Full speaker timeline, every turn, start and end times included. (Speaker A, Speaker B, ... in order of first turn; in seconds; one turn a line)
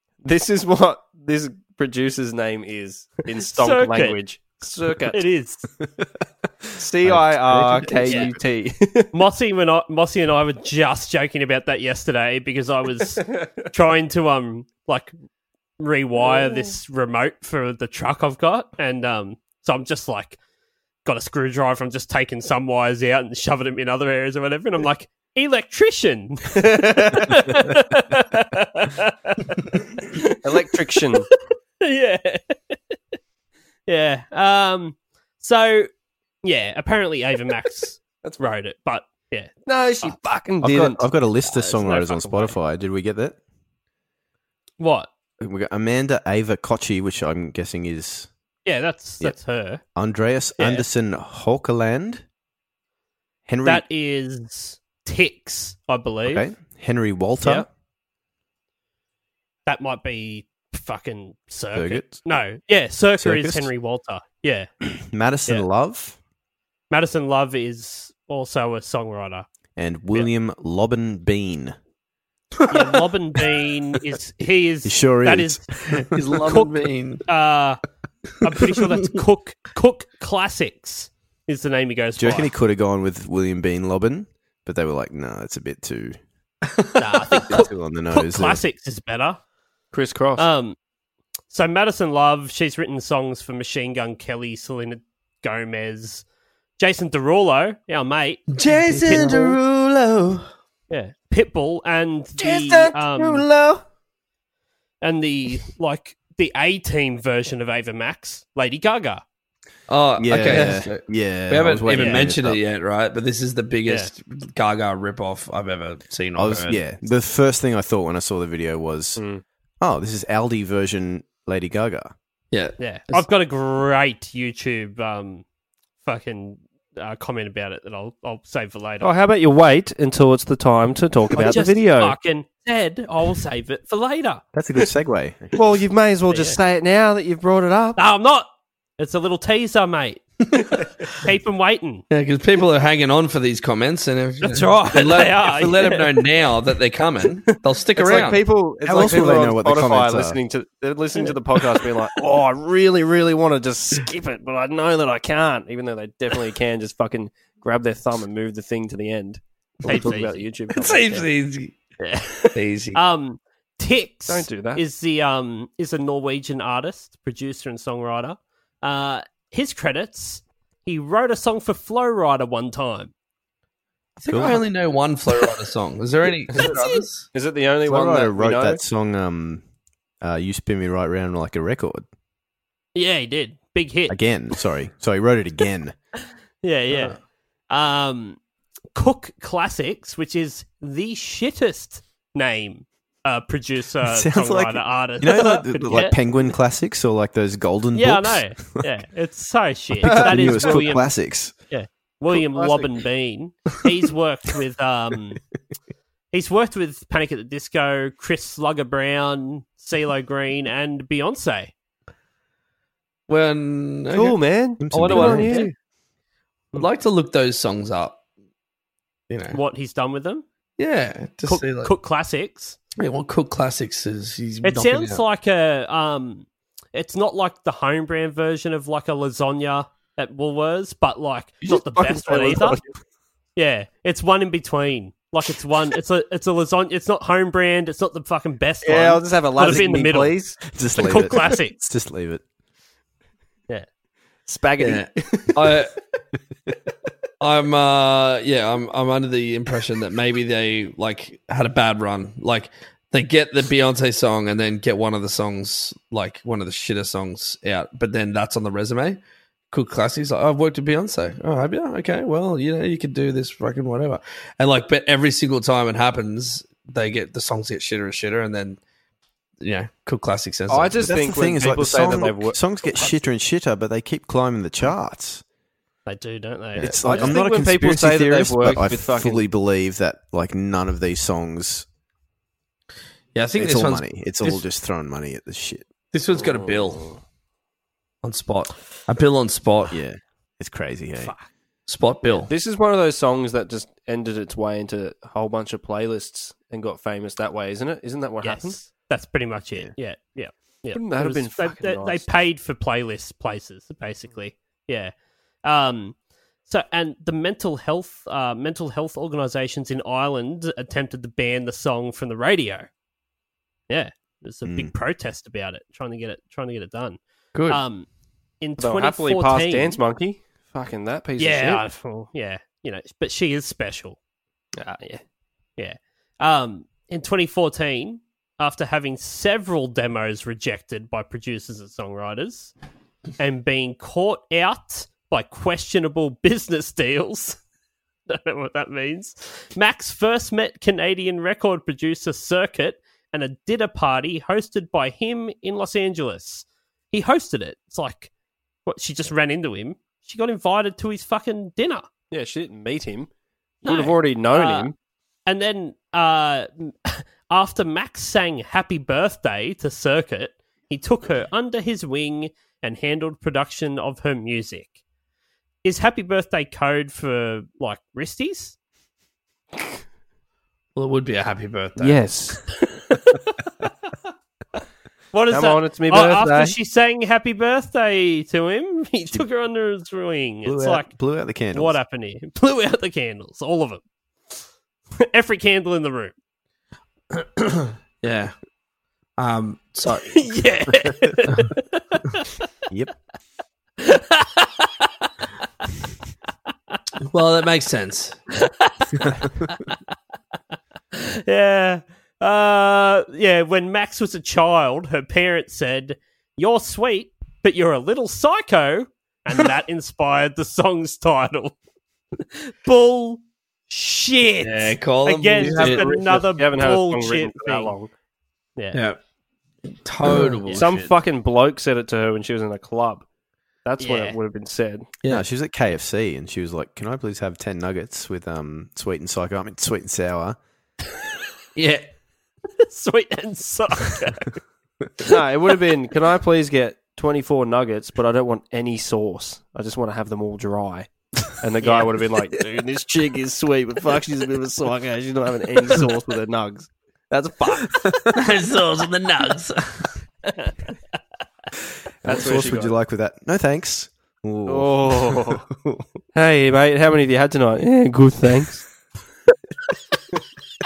Speaker A: 0.2-5.2
Speaker B: 3.5-4.2
Speaker B: 5.1-5.7
Speaker A: 6.8-9.1
Speaker C: 7.0-8.4
Speaker B: 8.1-8.3
Speaker B: 9.1-15.1
Speaker B: 15.8-20.4
Speaker A: 16.2-16.7
Speaker B: 21.0-30.3
Speaker A: 26.6-27.2
Speaker A: 30.4-31.3
Speaker B: 31.3-32.9
Speaker B: 33.9-35.9
Speaker B: 36.4-40.1
Speaker A: 39.6-41.0
Speaker C: 40.6-43.4
Speaker B: 41.5-42.5
Speaker B: 44.8-45.1
Speaker C: 45.4-48.3
Speaker B: 48.6-49.8
Speaker C: 49.9-52.2
Speaker B: 50.6-50.8
Speaker C: 53.5-53.9
Speaker B: 53.6-56.5
Speaker C: 56.3-57.7
Speaker B: 59.6-64.7
Speaker C: 61.7-62.2
Speaker C: 63.2-63.7
Speaker C: 64.8-66.2
Speaker B: 66.9-69.5
Speaker C: 69.8-71.8
Speaker B: 72.7-75.7
Speaker C: 74.8-75.6
Speaker D: 75.9-77.2
Speaker B: 76.4-77.8
Speaker B: 78.4-82.5
Speaker C: 82.2-86.2
Speaker B: 87.0-89.4
Speaker C: 87.5-88.6
Speaker A: 89.9-90.5
Speaker B: 90.4-90.8
Speaker B: 91.5-96.2
Speaker B: 96.8-99.5
Speaker D: 98.5-100.4
Speaker A: 98.7-99.5
Speaker B: 100.9-103.5
Speaker A: 102.4-103.8
Speaker B: 105.0-109.2
Speaker D: 109.9-116.8
Speaker C: 110.2-112.6
Speaker B: 111.9-112.2
Speaker C: 116.3-119.2
Speaker A: 119.2-119.4
Speaker C: 119.8-122.1
Speaker D: 122.5-123.2
Speaker B: 122.8-125.4
Speaker B: 126.0-129.1
Speaker A: 129.0-132.2
Speaker B: 131.3-134.4
Speaker C: 134.5-135.6
Speaker A: 135.5-138.0
Speaker B: 136.3-136.6
Speaker B: 137.9-140.2
Speaker B: 141.1-142.0
Speaker D: 142.1-148.4
Speaker B: 144.4-146.0
Speaker A: 147.9-161.3
Speaker C: 148.8-150.4
Speaker B: 159.8-160.4
Speaker D: 160.7-161.8
Speaker D: 162.4-163.0
Speaker B: 162.9-173.1
Speaker A: 164.3-164.8
Speaker D: 174.2-177.3
Speaker C: 174.3-174.6
Speaker A: 176.5-178.8
Speaker B: 176.6-177.0
Speaker C: 177.8-179.6
Speaker C: 180.2-182.0
Speaker B: 182.9-184.2
Speaker C: 184.1-185.9
Speaker B: 186.6-187.2
Speaker B: 187.7-188.4
Speaker B: 188.9-196.2
Speaker C: 194.0-198.7
Speaker B: 197.9-201.1
Speaker C: 200.0-201.5
Speaker A: 200.0-200.8
Speaker B: 201.7-205.4
Speaker A: 202.3-202.9
Speaker B: 206.3-211.7
Speaker D: 213.3-214.4
Speaker A: 214.1-215.7
Speaker C: 214.8-215.7
Speaker D: 214.9-215.7
Speaker D: 216.7-218.2
Speaker D: 219.3-219.6
Speaker B: 219.5-220.4
Speaker D: 220.8-221.9
Speaker B: 221.4-222.8
Speaker D: 223.0-225.2
Speaker B: 224.6-232.8
Speaker A: 231.6-232.9
Speaker B: 233.6-241.8
Speaker A: 238.8-240.6
Speaker C: 240.7-242.4
Speaker A: 244.4-245.7
Speaker D: 244.8-245.9
Speaker D: 247.4-259.2
Speaker D: 259.7-268.8
Speaker D: 269.6-271.0
Speaker A: 270.7-272.6
Speaker C: 271.0-275.4
Speaker B: 276.1-277.4
Speaker C: 276.8-281.9
Speaker A: 276.8-279.4
Speaker D: 283.3-284.6
Speaker C: 283.5-285.9
Speaker D: 286.1-287.1
Speaker A: 286.3-287.2
Speaker D: 288.2-290.0
Speaker C: 289.9-291.3
Speaker B: 291.2-291.5
Speaker D: 291.9-292.5
Speaker A: 292.4-298.8
Speaker B: 298.4-305.1
Speaker A: 300.9-302.3
Speaker B: 305.6-306.1
Speaker B: 306.6-312.9
Speaker B: 313.9-318.1
Speaker C: 314.6-314.9
Speaker D: 317.5-317.8
Speaker B: 318.6-320.0
Speaker A: 318.8-321.8
Speaker B: 321.4-324.2
Speaker A: 324.8-325.2
Speaker B: 325.8-332.7
Speaker B: 333.4-337.6
Speaker B: 338.3-348.3
Speaker B: 348.9-352.1
Speaker A: 352.3-353.3
Speaker B: 353.8-354.9
Speaker A: 353.8-354.9
Speaker B: 355.4-364.9
Speaker B: 365.8-368.7
Speaker D: 370.9-372.2
Speaker A: 372.0-372.7
Speaker B: 375.3-381.1
Speaker A: 375.5-376.8
Speaker C: 380.6-382.0
Speaker B: 381.7-384.0
Speaker B: 385.2-386.3
Speaker D: 387.3-388.5
Speaker D: 389.4-390.4
Speaker B: 390.3-392.2
Speaker B: 394.0-395.1
Speaker D: 397.3-398.4
Speaker B: 398.6-399.9
Speaker B: 401.1-411.7
Speaker B: 412.4-417.9
Speaker D: 414.6-416.1
Speaker A: 415.6-418.1
Speaker D: 418.9-419.2
Speaker D: 420.0-421.1
Speaker A: 420.7-423.2
Speaker A: 423.8-425.1
Speaker B: 424.0-424.4
Speaker C: 425.3-430.6
Speaker D: 431.8-432.1
Speaker B: 432.8-434.5
Speaker A: 435.2-448.1
Speaker B: 441.8-442.1
Speaker D: 448.3-450.1
Speaker C: 452.2-456.0
Speaker A: 452.2-452.9
Speaker A: 454.7-455.6
Speaker A: 456.3-458.9